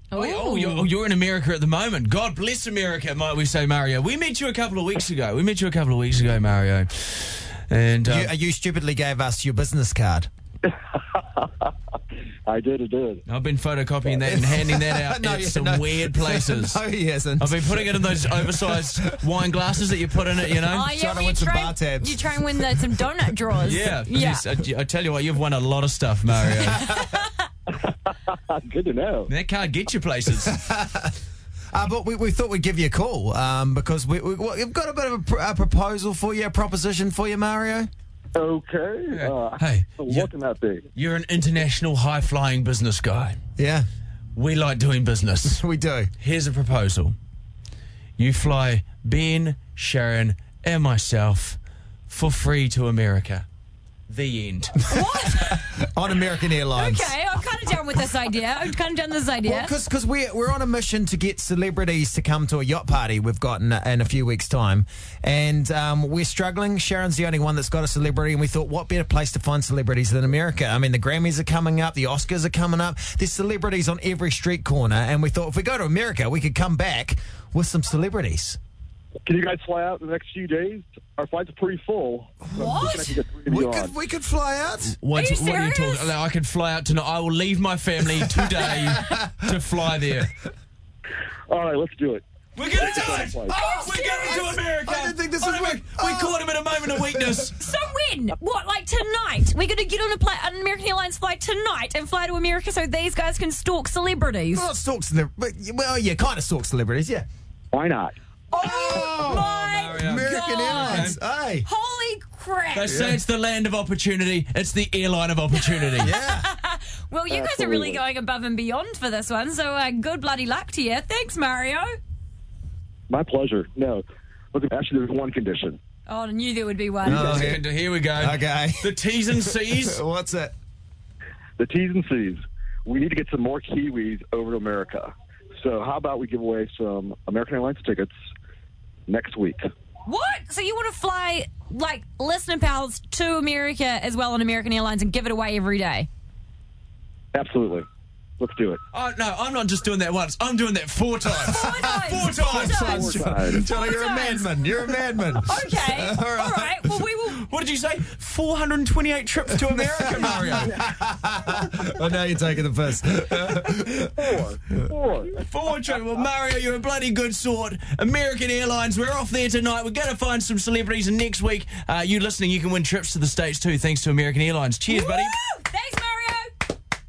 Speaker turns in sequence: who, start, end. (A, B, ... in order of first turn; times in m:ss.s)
0:00.1-0:00.9 A
0:00.1-0:08.3 B
0:08.1-0:10.3 C
0:10.6-0:11.7 D
0:12.5-0:13.2 D
0:13.3-0:16.8 B
0:14.3-0:19.0 C
0:17.4-0:20.9 B
0:20.7-0:24.4 A
0:20.7-0:23.4 C
0:23.7-0:26.8 B
0:26.7-0:27.3 A
0:28.1-0:29.3 D
0:29.3-0:30.6 B
0:30.4-0:31.2 C
0:31.7-0:37.9 C
0:38.4-0:40.8 D
0:39.1-0:40.3 B
0:41.0-0:43.4 B
0:43.6-0:43.9 C
0:44.4-0:45.6 B
0:45.4-0:46.1 C
0:46.2-0:47.2 B
0:48.2-0:53.5 B
0:54.1-0:54.8 B
0:54.9-0:55.8 A
0:55.1-0:57.1 C
0:56.7-0:59.7 A
0:59.4-1:18.6 C
1:19.2-1:23.9 D
1:22.5-1:23.1 A
1:22.7-1:22.9 C
1:23.5-1:25.0 C
1:25.0-1:30.3 B
1:25.2-1:26.1 A
1:28.2-1:29.5 C
1:31.5-1:33.6 D
1:32.6-1:37.6 B
1:32.8-1:37.5 C
1:33.5-1:34.4 A
1:37.6-1:44.7 A
1:44.5-1:47.3 C
1:47.7-1:48.2 D
1:48.5-1:53.0 A
1:48.6-1:51.7 C
1:49.2-1:51.2 B
1:52.7-1:56.1 B
1:52.9-1:53.2 C
1:56.0-1:56.5 C
1:56.0-2:02.0 A
1:57.3-1:58.0 D
2:03.1-2:05.8 D
2:06.1-2:07.5 A
2:07.0-2:10.6 C
2:07.1-2:10.0 B
2:11.6-2:18.1 D
2:19.1-2:19.6 D
2:20.1-2:26.1 A
2:27.3-2:27.9 D
2:28.4-2:28.8 D
2:28.9-2:33.1 B
2:31.5-2:34.6 A
2:31.5-2:37.0 C
2:32.7-2:33.6 D
2:35.4-2:37.5 A
2:37.5-2:40.7 B
2:39.6-2:44.4 C
2:44.2-2:45.4 D
2:45.4-2:55.4 B
2:54.9-2:56.5 A